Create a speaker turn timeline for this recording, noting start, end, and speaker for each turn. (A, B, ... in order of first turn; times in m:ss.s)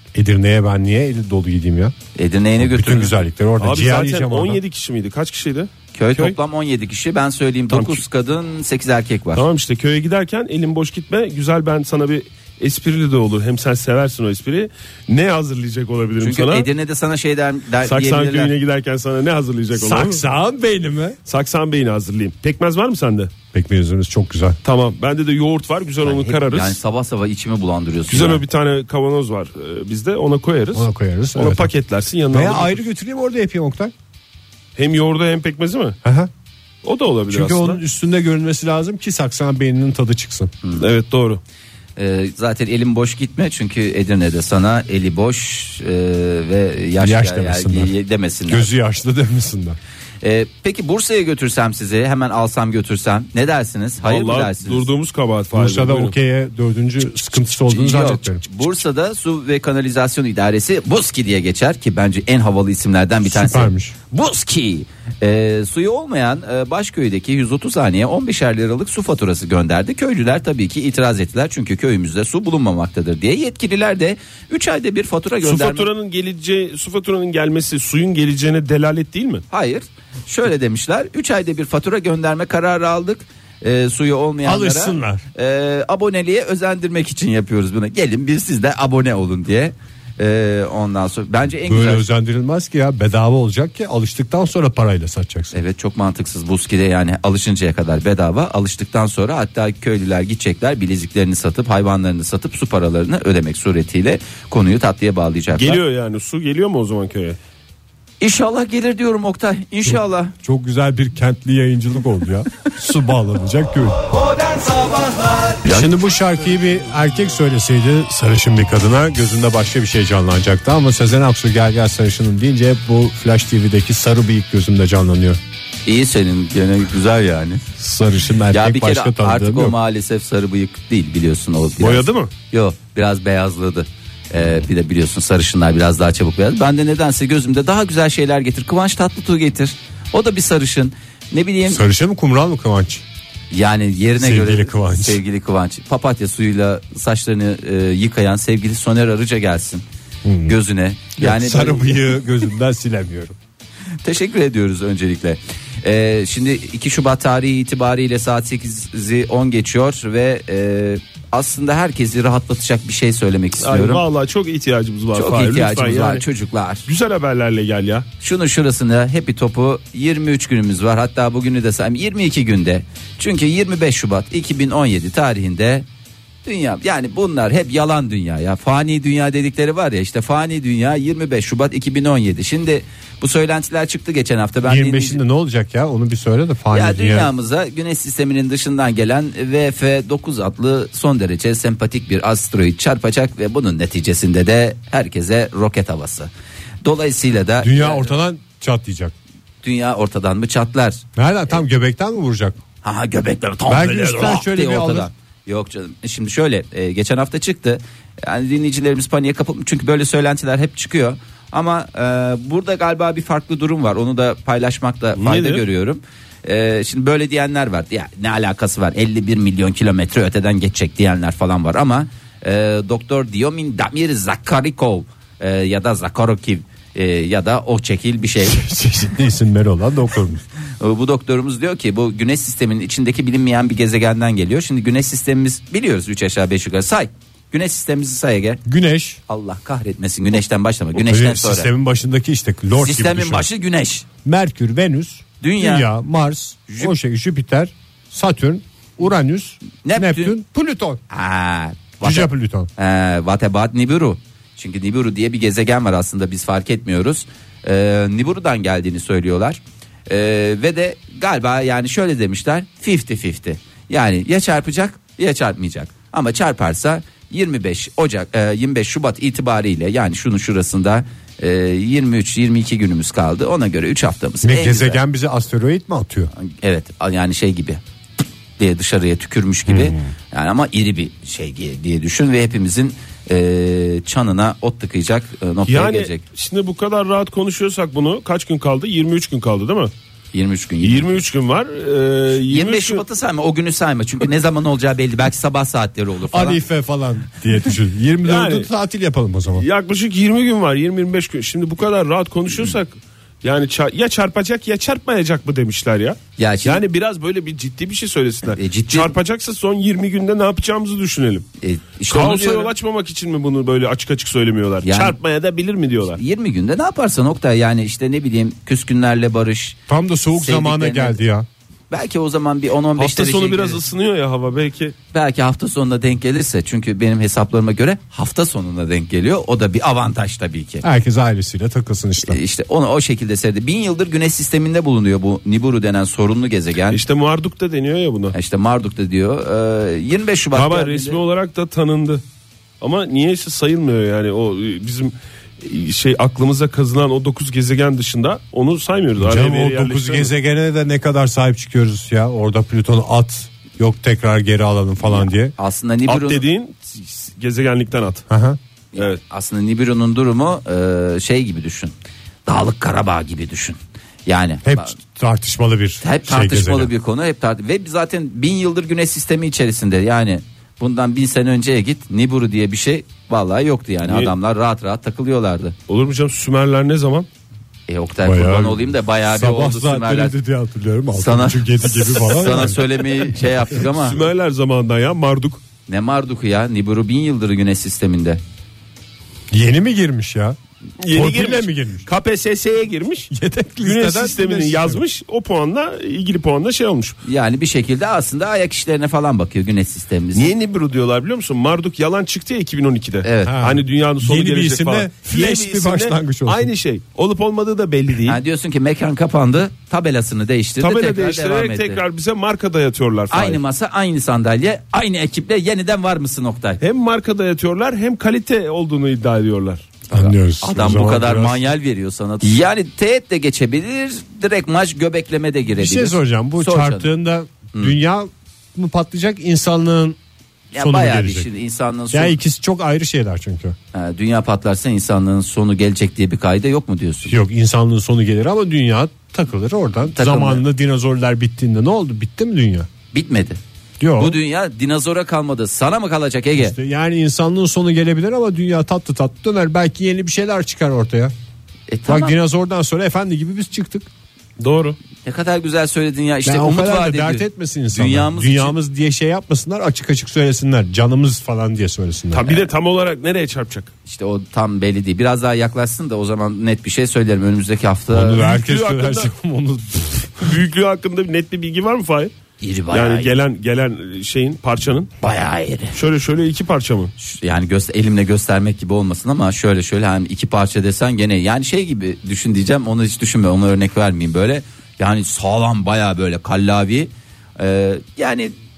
0:00.1-0:01.9 A
0:02.1-0:03.2 B
0:02.6-0:04.6 A
0:03.6-0:06.4 C
0:05.9-0:09.4 B
0:07.7-0:08.0 C
0:09.3-0:16.7 C
0:16.2-0:18.5 B
0:17.8-0:20.2 C
0:19.7-0:21.2 A
0:21.2-0:23.3 C
0:23.5-0:24.6 A
0:24.6-0:26.8 C
0:26.0-0:28.4 B
0:28.1-0:32.8 C
0:30.7-0:31.7 A
0:32.3-0:33.9 A
0:34.8-0:36.0 C
0:36.0-0:36.3 A
0:36.8-0:37.8 C
0:37.3-0:40.5 A
0:40.8-0:41.4 C
0:42.0-0:48.7 B
0:47.0-0:47.9 A
0:48.5-0:49.8 A
0:50.2-0:54.8 B
0:54.0-0:56.1 C
0:55.5-0:58.4 A
0:57.5-1:15.9 B
1:03.3-1:03.9 A
1:15.4-1:19.4 C
1:19.5-1:32.0 B
1:24.4-1:25.2 A
1:31.7-1:35.6 A
1:35.5-1:45.8 B
1:45.6-1:47.4 C
1:48.2-1:50.3 B
1:49.8-1:54.0 A
1:55.6-1:55.9 B
1:55.6-2:05.4 A
2:05.8-2:07.6 B
2:07.8-2:09.8 A
2:08.5-2:21.8 B
2:11.8-2:12.3 C
2:21.7-2:23.0 A
2:23.5-2:29.8 B
2:24.2-2:25.2 A
2:30.2-2:30.6 A
2:30.5-2:32.1 B
2:31.2-2:33.4 A
2:34.0-2:44.0 B
2:43.6-2:46.2 C
2:45.1-2:46.9 B
2:46.9-2:48.1 C
2:48.2-2:55.8 B
2:56.4-3:05.2 B
3:04.6-3:07.3 A
3:06.7-3:16.3 B
3:16.8-3:18.1 B
3:17.6-3:19.1 A
3:19.6-3:21.0 B
3:21.2-3:22.6 A
3:22.8-3:48.6 B
3:23.7-3:25.1 A
3:35.2-3:35.6 C
3:48.5-3:50.4 A
3:50.8-3:58.6 B
3:58.6-3:59.2 A
3:59.3-4:01.7 B
4:01.0-4:03.4 A
4:02.8-4:04.1 B
4:04.2-4:11.0 A
4:05.4-4:05.9 B
4:09.8-4:10.3 B
4:11.1-4:35.0 B
4:12.0-4:12.7 A
4:34.4-4:36.3 A
4:36.4-4:37.8 B
4:38.6-4:46.2 B
4:39.7-4:40.1 A
4:45.6-4:49.9 C
4:50.3-4:51.2 B
4:50.8-4:53.0 C
4:52.5-4:56.6 B
4:56.3-4:59.6 A
4:58.2-4:58.7 C
4:59.5-5:11.4 C
5:06.4-5:06.8 B
5:08.5-5:09.1 B
5:11.6-5:12.7 B
5:12.1-5:16.2 C
5:14.8-5:15.2 B
5:16.2-5:19.8 B
5:19.9-5:21.5 A
5:20.4-5:21.2 B
5:21.9-5:23.8 B
5:23.0-5:25.0 C
5:25.1-5:30.8 B
5:30.8-5:32.4 A
5:32.2-5:37.0 B
5:36.9-5:38.3 C
5:38.3-5:41.2 B
5:40.5-5:42.2 C
5:42.8-5:50.3 C
5:49.2-5:55.5 A
5:55.0-5:56.4 B
5:56.1-5:58.2 C
5:58.3-5:58.6 A
5:58.9-6:01.9 B
6:02.5-6:04.9 B
6:04.6-6:06.9 A
6:06.0-6:15.8 B
6:14.0-6:14.3 C
6:15.9-6:17.3 C
6:17.9-6:20.3 B
6:18.2-6:23.4 A
6:21.1-6:24.2 B
6:23.9-6:25.6 C
6:25.9-6:28.4 B
6:29.5-6:30.6 A
6:31.0-6:33.3 C
6:31.1-6:32.1 A
6:33.3-6:35.0 A
6:33.8-6:37.2 C
6:37.2-6:40.5 B
6:40.3-6:48.4 C
6:43.2-6:43.6 B
6:43.4-6:46.7 A
6:48.2-6:52.0 B
6:50.8-6:53.6 C
6:53.3-6:56.8 B
6:56.8-6:59.9 C
7:00.1-7:07.1 B
7:00.1-7:01.6 A
7:05.8-7:10.2 A
7:10.7-7:12.4 B
7:10.8-7:11.5 A
7:12.1-7:13.8 A
7:13.9-7:17.4 B
7:17.3-7:22.9 A
7:20.1-7:20.6 B
7:23.1-7:23.6 B
7:24.0-7:24.4 A
7:24.2-7:26.7 B
7:26.6-7:31.3 A
7:31.9-7:32.4 B
7:32.1-7:34.1 A
7:34.6-7:35.0 C
7:35.2-7:38.7 B
7:36.4-7:42.6 A
7:42.3-7:43.9 C
7:44.0-7:48.5 B
7:48.1-7:50.6 A
7:48.4-7:49.3 C
7:50.4-7:52.3 C
7:52.6-7:53.3 B
7:52.9-7:55.1 C
7:55.2-7:56.0 B
7:55.9-7:57.1 C
7:57.2-8:08.5 B